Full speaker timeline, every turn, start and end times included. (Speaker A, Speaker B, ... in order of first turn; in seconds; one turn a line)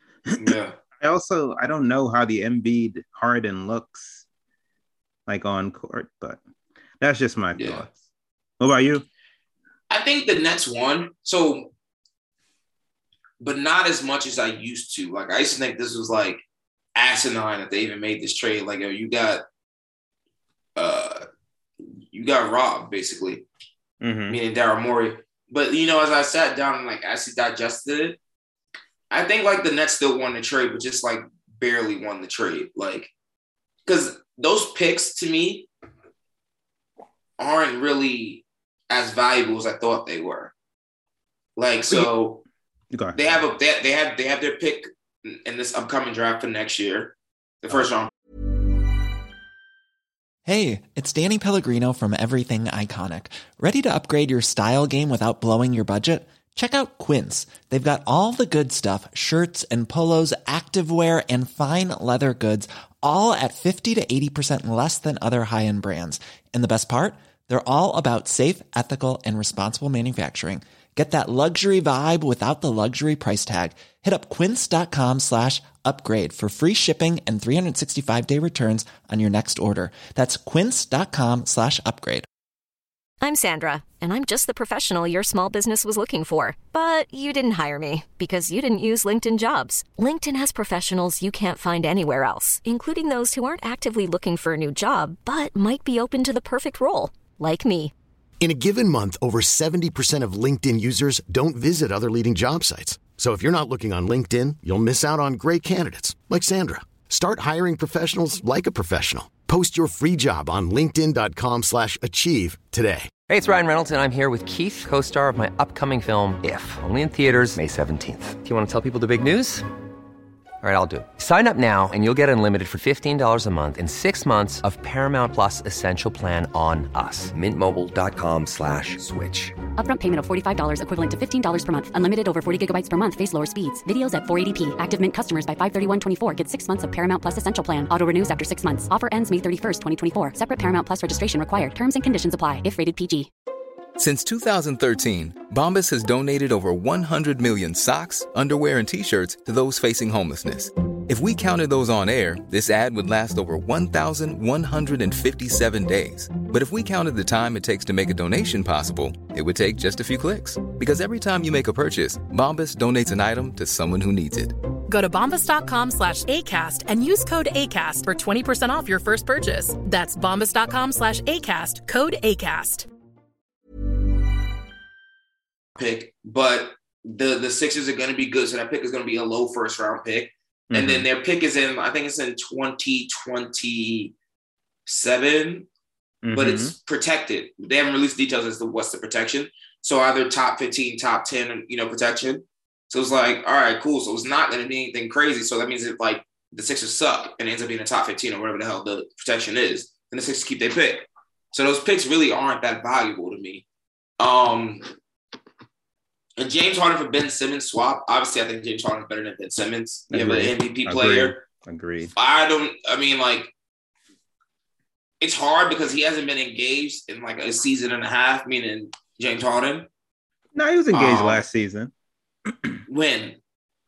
Speaker A: 0.3-4.2
Speaker B: 0.4-0.7
Speaker A: 5.3-6.4
Speaker A: 7.0-8.0
Speaker B: 7.5-7.8
Speaker A: 8.6-9.1
Speaker B: 9.9-11.7
Speaker B: 13.4-16.4
Speaker B: 16.9-19.4
Speaker B: 20.8-21.2
Speaker B: 22.1-23.4
Speaker A: 24.0-24.4
Speaker B: 24.3-28.2
Speaker B: 29.1-33.1
Speaker B: 33.9-35.7
Speaker B: 37.4-40.5
Speaker B: 41.6-42.4
Speaker A: 42.9-43.4
Speaker B: 43.1-48.1
Speaker C: 50.4-82.2
Speaker D: 83.2-97.9
Speaker E: 98.4-113.1
Speaker F: 113.3-119.6
Speaker F: 120.6-129.5
Speaker G: 129.8-143.3
Speaker H: 144.0-164.6
Speaker I: 164.9-172.9
Speaker B: 175.8-184.1
Speaker A: 180.7-181.1
Speaker B: 184.9-185.7
Speaker A: 186.2-186.7
Speaker B: 186.3-203.6
Speaker B: 204.2-204.9
Speaker B: 206.4-211.4
Speaker A: 210.1-212.1
Speaker B: 212.2-213.5
Speaker B: 215.2-219.9
Speaker A: 220.5-221.9
Speaker B: 220.9-221.4
Speaker B: 222.9-223.4